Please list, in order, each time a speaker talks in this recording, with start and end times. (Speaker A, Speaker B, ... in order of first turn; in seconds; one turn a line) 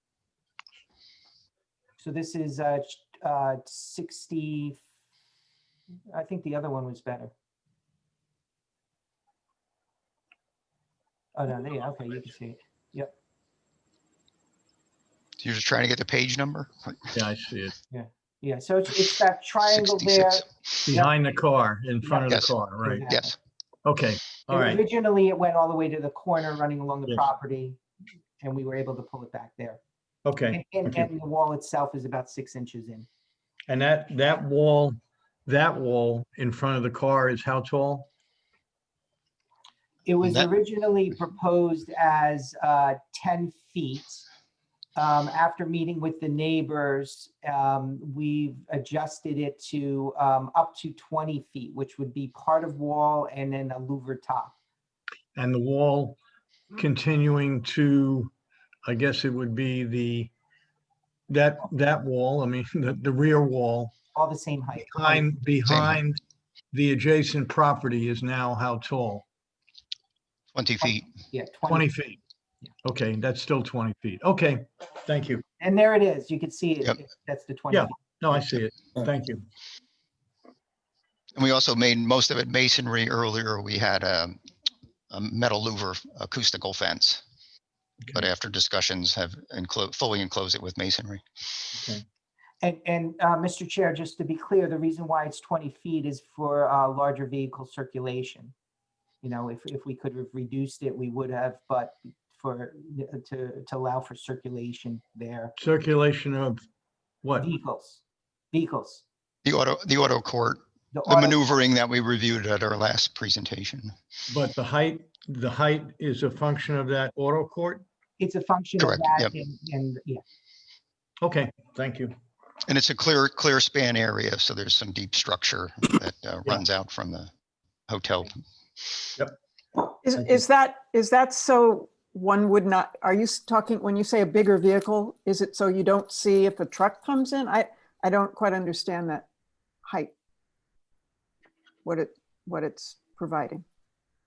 Speaker A: 2.0-4.8
Speaker A: 6.1-7.3
Speaker A: 11.3-13.1
Speaker B: 15.4-17.1
Speaker C: 17.1-17.7
Speaker A: 17.9-21.1
Speaker B: 19.6-20.5
Speaker C: 20.9-23.0
Speaker A: 22.0-23.3
Speaker B: 23.0-23.4
Speaker C: 23.8-24.8
Speaker A: 24.5-27.8
Speaker A: 28.4-29.8
Speaker C: 30.2-31.1
Speaker A: 30.5-33.1
Speaker C: 33.7-38.1
Speaker A: 40.0-44.2
Speaker B: 40.2-40.5
Speaker A: 45.0-54.5
Speaker C: 55.4-56.2
Speaker C: 56.7-58.3
Speaker C: 58.9-60.3
Speaker C: 61.3-63.9
Speaker A: 64.1-65.3
Speaker C: 64.8-66.2
Speaker B: 65.7-66.0
Speaker C: 66.7-69.2
Speaker B: 70.5-71.1
Speaker A: 70.8-71.9
Speaker C: 71.7-72.2
Speaker C: 72.8-75.4
Speaker A: 75.6-77.9
Speaker C: 77.7-79.4
Speaker B: 81.3-84.4
Speaker B: 85.1-87.2
Speaker B: 88.1-91.2
Speaker C: 91.7-92.0
Speaker A: 92.6-98.5
Speaker A: 99.2-105.5
Speaker C: 105.6-106.6
Speaker C: 107.2-107.5
Speaker A: 107.4-109.0
Speaker B: 109.4-113.9
Speaker A: 110.9-111.5
Speaker C: 114.3-117.8
Speaker A: 118.2-120.2
Speaker B: 118.8-119.3
Speaker C: 121.2-122.1
Speaker B: 122.7-127.3
Speaker B: 127.9-129.1
Speaker D: 130.0-139.2
Speaker C: 130.2-130.4
Speaker D: 139.8-140.1
Speaker D: 141.8-143.6